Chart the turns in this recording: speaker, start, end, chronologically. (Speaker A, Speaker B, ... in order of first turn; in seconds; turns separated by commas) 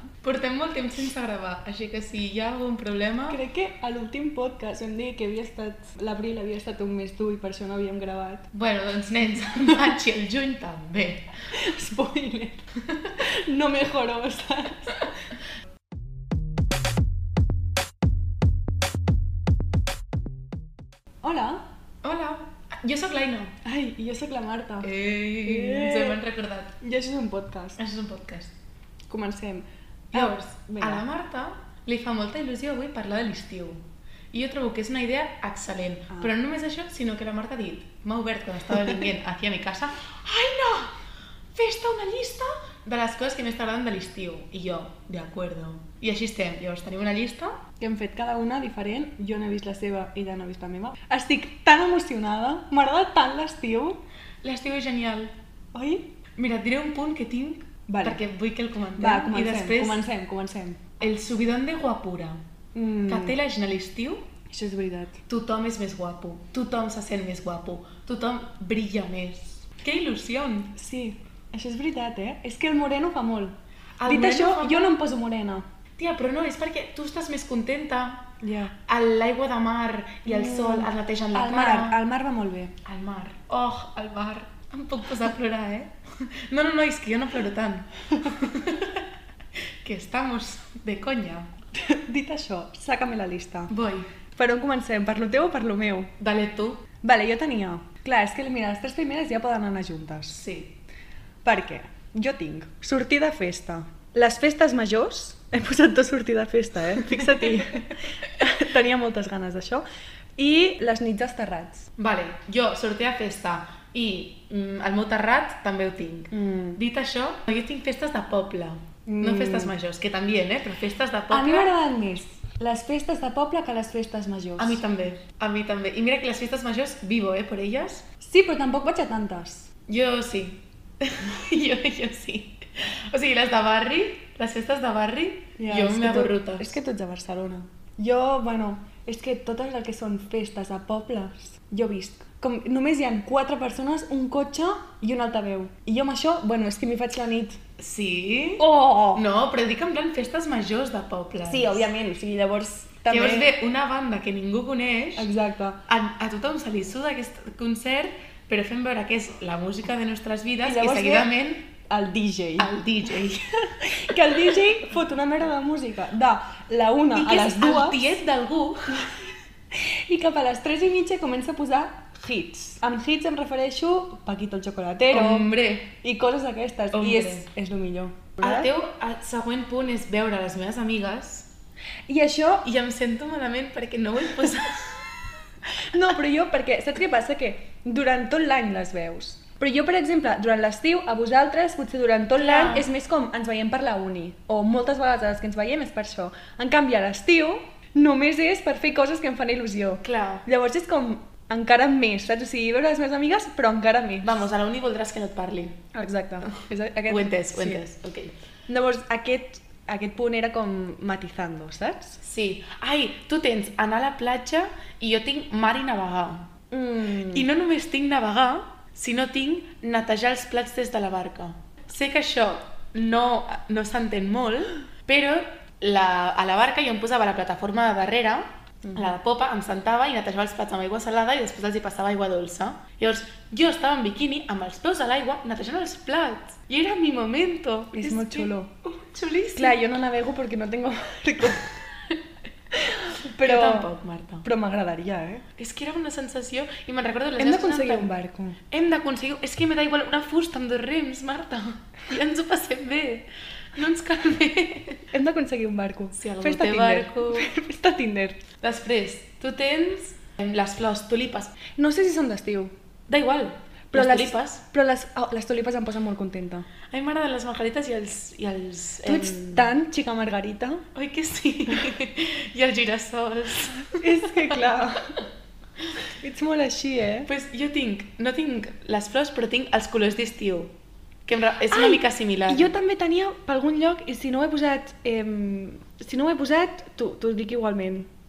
Speaker A: 0.2-3.4, Speaker B: 3.3-8.5, Speaker A: 8.5-11.3, Speaker B: 11.5-12.7, Speaker A: 12.9-13.1, Speaker B: 13.2-15.1, Speaker B: 21.2-21.6, Speaker A: 22.0-23.6, Speaker B: 23.6-26.2, Speaker A: 24.8-26.7, Speaker B: 26.8-27.8, Speaker A: 27.8-28.5, Speaker B: 29.1-31.0, Speaker A: 30.1-40.9, Speaker A: 41.5-47.6, Speaker B: 47.8-54.0, Speaker A: 54.4-55.3, Speaker B: 55.7-56.1, Speaker A: 56.4-60.0, Speaker B: 57.9-58.2, Speaker B: 59.0-60.8, Speaker A: 61.0-62.4, Speaker B: 62.7-63.4, Speaker A: 63.1-64.2, Speaker B: 64.5-65.2, Speaker A: 65.3-70.7, Speaker B: 70.7-75.7, Speaker A: 74.0-75.0, Speaker A: 76.0-78.3, Speaker B: 78.4-78.7, Speaker A: 78.8-82.0, Speaker B: 80.3-82.7, Speaker A: 82.8-89.0, Speaker A: 89.8-91.5, Speaker B: 91.7-93.7, Speaker A: 93.7-94.1, Speaker B: 94.3-96.1, Speaker A: 96.2-96.8, Speaker B: 97.0-100.4, Speaker A: 100.4-100.7, Speaker B: 101.4-109.8, Speaker B: 110.4-111.9, Speaker A: 112.0-121.7, Speaker B: 116.3-116.8, Speaker B: 119.0-119.7, Speaker B: 121.3-124.8, Speaker A: 124.6-128.0, Speaker B: 128.2-129.7, Speaker A: 129.9-136.8, Speaker B: 135.6-147.6, Speaker A: 147.8-151.8, Speaker B: 148.6-149.3, Speaker B: 151.4-153.5, Speaker A: 153.1-155.3, Speaker B: 155.2-155.8, Speaker A: 155.8-161.7, Speaker B: 160.6-161.3, Speaker B: 161.8-162.7, Speaker A: 162.6-163.5, Speaker B: 163.6-168.2, Speaker A: 167.1-169.0, Speaker B: 169.7-175.5, Speaker A: 175.1-175.9, Speaker B: 176.0-178.7, Speaker A: 176.9-177.4, Speaker A: 178.4-181.5, Speaker B: 182.1-182.7, Speaker A: 182.6-185.2, Speaker B: 185.7-204.4, Speaker A: 192.4-192.9, Speaker A: 200.0-200.4, Speaker A: 204.2-205.8, Speaker B: 205.9-207.8, Speaker A: 207.1-208.3, Speaker B: 208.7-212.2, Speaker A: 212.2-216.5, Speaker B: 216.7-217.5, Speaker A: 217.3-239.8, Speaker B: 237.9-238.7, Speaker B: 239.5-241.7, Speaker B: 242.7-243.9, Speaker A: 243.4-244.4, Speaker B: 244.4-245.4, Speaker A: 245.6-248.1, Speaker B: 247.4-248.6, Speaker A: 248.7-255.1, Speaker B: 255.1-258.4, Speaker A: 256.1-257.5, Speaker A: 258.6-261.6, Speaker B: 261.8-262.7, Speaker A: 263.1-264.6, Speaker B: 263.9-266.7, Speaker A: 266.9-269.7, Speaker B: 269.0-270.9, Speaker A: 270.9-274.7, Speaker B: 274.0-275.2, Speaker B: 276.2-277.3, Speaker A: 277.3-280.7, Speaker A: 281.2-282.7, Speaker B: 281.7-288.1